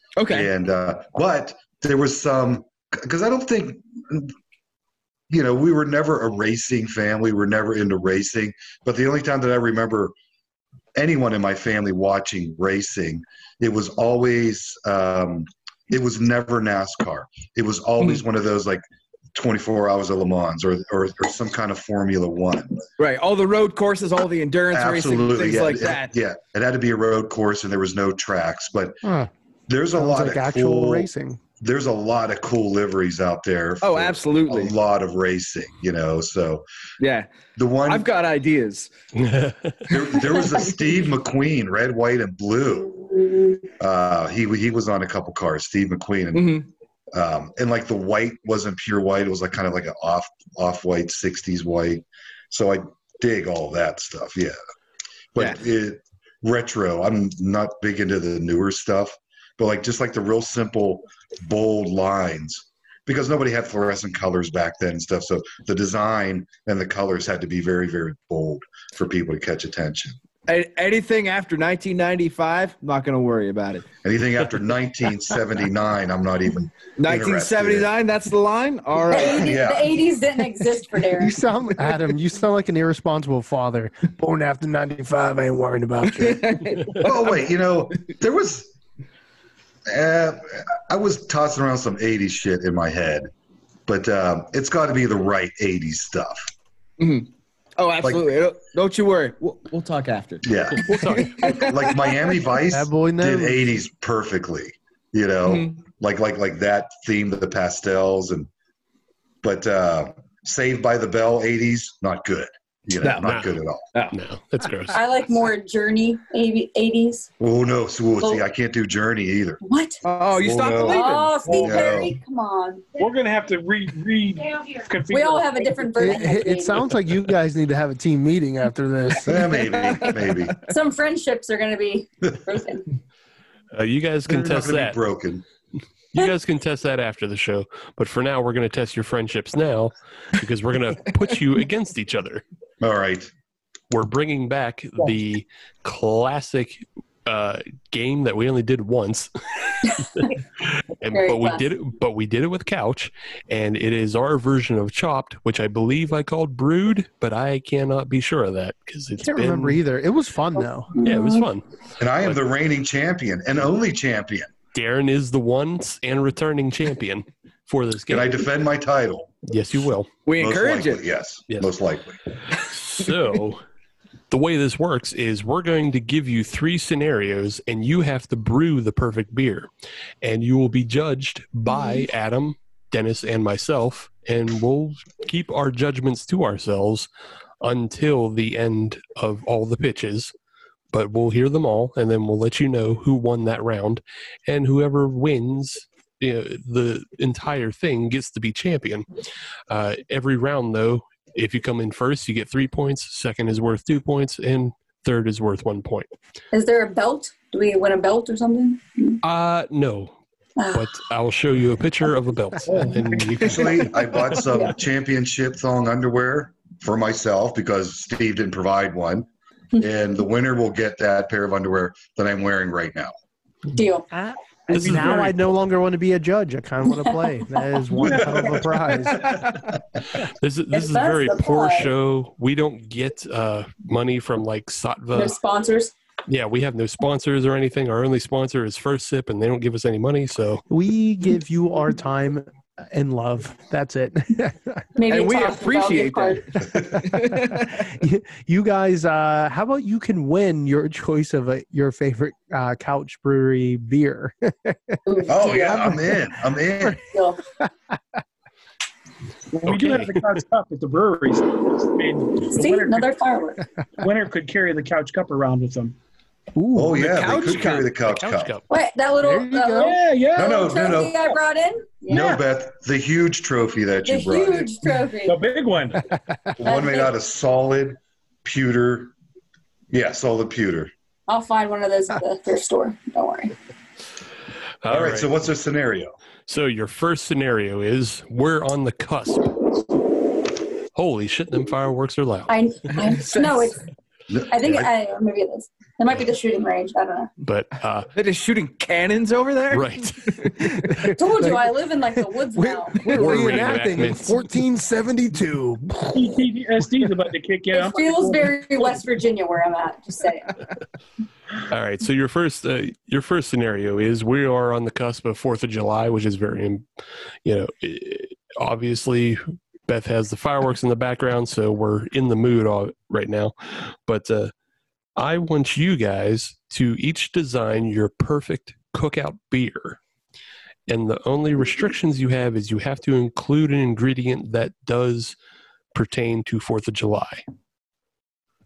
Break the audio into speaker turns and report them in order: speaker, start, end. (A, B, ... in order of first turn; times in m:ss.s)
0:00.2-0:00.5 A
0:00.3-0:04.3 B
0:05.3-0:10.1 B
0:11.0-0:22.8 B
0:23.0-0:26.1 A
0:24.7-0:29.0 B
0:29.0-0:29.3 C
0:29.7-0:36.6 B
0:30.0-0:31.4 C
0:33.8-0:34.8 A
0:37.0-0:37.3 A
0:37.6-0:38.1 B
0:37.8-0:38.9 A
0:39.2-0:39.8 D
0:39.9-0:43.0 B
0:43.8-0:54.6 B
0:46.3-0:46.7 A
0:55.3-1:10.2 B
1:10.5-1:13.9 A
1:14.0-1:17.9 B
1:17.0-1:19.6 A
1:19.1-1:21.4 E
1:19.4-1:20.0 B
1:21.1-1:26.7 C
1:26.1-1:27.4 A
1:27.0-1:28.7 B
1:29.9-1:33.3 B
1:33.9-1:36.5 B
1:37.0-1:40.4 A
1:40.4-1:48.5 B
1:40.8-1:41.7 D
1:41.4-1:41.8 A
1:42.7-1:43.7 C
1:45.5-1:45.8 A
1:49.4-1:53.8 B
1:53.0-1:53.4 A
1:53.2-1:53.5 D
1:54.1-1:55.0 D
1:54.9-1:57.3 E
1:57.4-1:59.6 B
1:59.6-2:00.0 E
2:00.0-2:01.4 A
2:00.3-2:02.2 B
2:00.9-2:03.0 E
2:01.4-2:02.1 F
2:03.0-2:06.2 F
2:05.1-2:07.0 E
2:06.0-2:09.5 C
2:09.2-2:10.6 B
2:09.4-2:10.6 A
2:10.7-2:12.8 E
2:13.7-2:15.0 D
2:14.3-2:15.4 B
2:16.1-2:22.4 D
2:22.8-2:23.3 B
2:23.9-2:29.3 D
2:29.8-2:30.3 D
2:31.0-2:39.8 D
2:31.1-2:31.6 E
2:39.2-2:40.9 C
2:41.0-2:41.5 E
2:41.0-2:41.6 D
2:42.0-2:44.5 B
2:44.7-2:48.4 D
2:48.1-2:49.4 B
2:49.5-2:50.1 D
2:50.3-2:51.0 A
2:50.4-2:52.2 B
2:52.6-2:53.6 D
2:54.3-2:59.7 D
3:00.2-3:07.1 D
3:07.6-3:10.3 D
3:10.9-3:19.1 D
3:19.7-3:26.1 D
3:26.5-3:29.2 E
3:29.2-3:30.2 D
3:30.6-3:30.9 E
3:30.7-3:33.9 D
3:32.7-3:33.5 F
3:33.4-3:43.1 B
3:43.8-3:44.1 E
3:44.1-3:49.5 C
3:44.7-3:45.5 D
3:48.2-3:48.6 F
3:49.1-3:49.6 A
3:50.2-3:55.4 D
3:50.7-3:51.9 E
3:55.2-3:55.9 E
3:56.3-4:00.6 D
4:00.7-4:04.9 C
4:05.0-4:06.5 E
4:05.1-4:07.8 A
4:07.2-4:15.0 C
4:15.1-4:16.1 E
4:15.3-4:17.0 B
4:17.0-4:17.4 E
4:19.5-4:23.1 F
4:19.7-4:20.3 D
4:22.5-4:23.6 E
4:24.0-4:26.0 F
4:26.6-4:27.0 C
4:26.8-4:28.5 B
4:27.0-4:27.9 A
4:27.4-4:28.7 D
4:28.7-4:32.4 E
4:29.2-4:30.0 C
4:29.8-4:31.1 F
4:30.4-4:31.2 B
4:32.1-4:34.7 B
4:34.1-4:35.4 E
4:35.2-4:36.0 F
4:36.6-4:39.1 B
4:36.6-4:37.1 E
4:39.9-4:40.9 B
4:41.3-4:43.5 E
4:44.8-4:45.3 D
4:44.9-4:46.2 B
4:46.5-4:49.7 D
4:51.0-4:52.6 D
4:52.5-4:53.8 E
4:53.1-4:53.7 A
4:54.3-4:54.9 B
4:54.5-4:57.3 E
4:57.4-4:58.1 D
4:58.1-5:00.8 A
4:59.7-5:00.4 D
5:00.9-5:06.4 C
5:01.1-5:03.6 E
5:03.1-5:04.5 D
5:06.1-5:08.6 F
5:07.7-5:10.6 E
5:11.7-5:16.8 D
5:17.4-5:24.5 D
5:25.2-5:30.0 D
5:30.9-5:35.4 D
5:35.9-5:37.4 D